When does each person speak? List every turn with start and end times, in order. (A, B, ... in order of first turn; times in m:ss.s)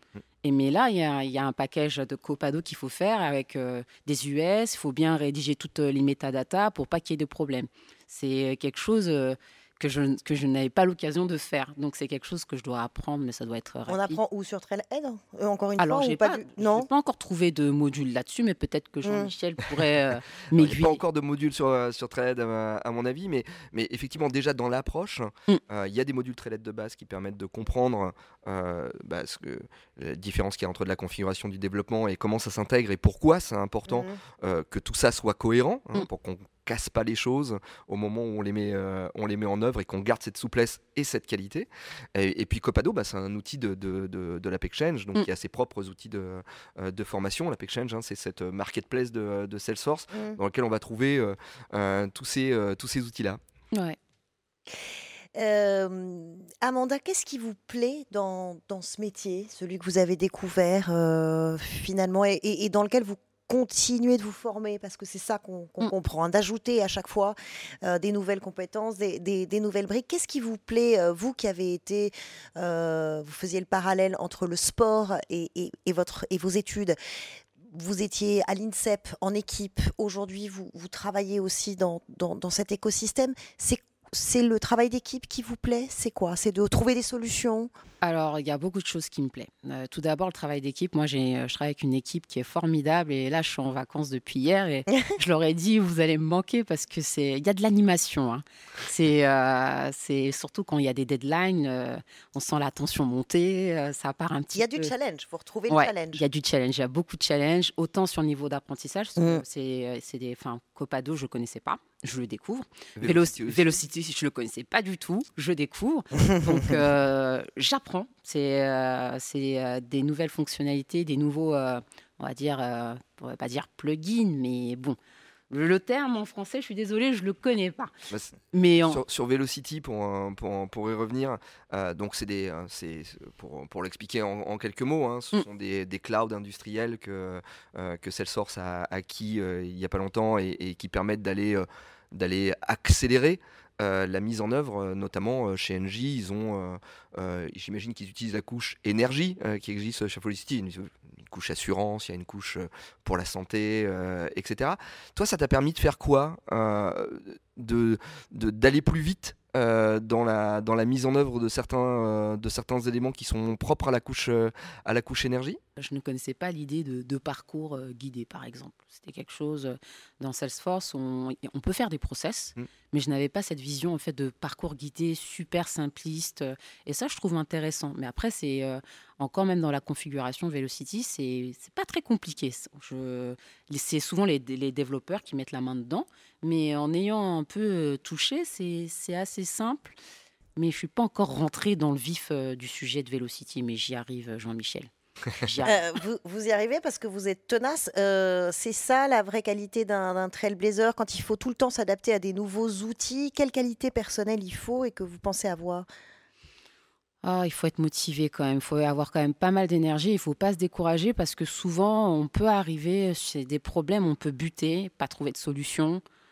0:00.4-0:14.2 A
0:13.9-0:16.9 B
0:15.8-0:21.0 A
0:20.5-0:53.4 C
0:33.9-0:34.2 B
0:50.1-0:50.4 B
0:55.4-1:17.0 B
1:17.7-1:27.7 B
1:28.0-1:44.9 A
1:44.6-1:46.2 B
1:45.7-2:05.0 A
1:53.0-1:53.7 C
2:05.5-2:07.9 A
2:08.1-2:45.6 C
2:08.5-2:09.0 A
2:45.8-3:10.0 A
3:10.6-3:14.9 A
3:15.4-3:15.8 A
3:15.7-3:25.9 B
3:27.2-3:36.0 A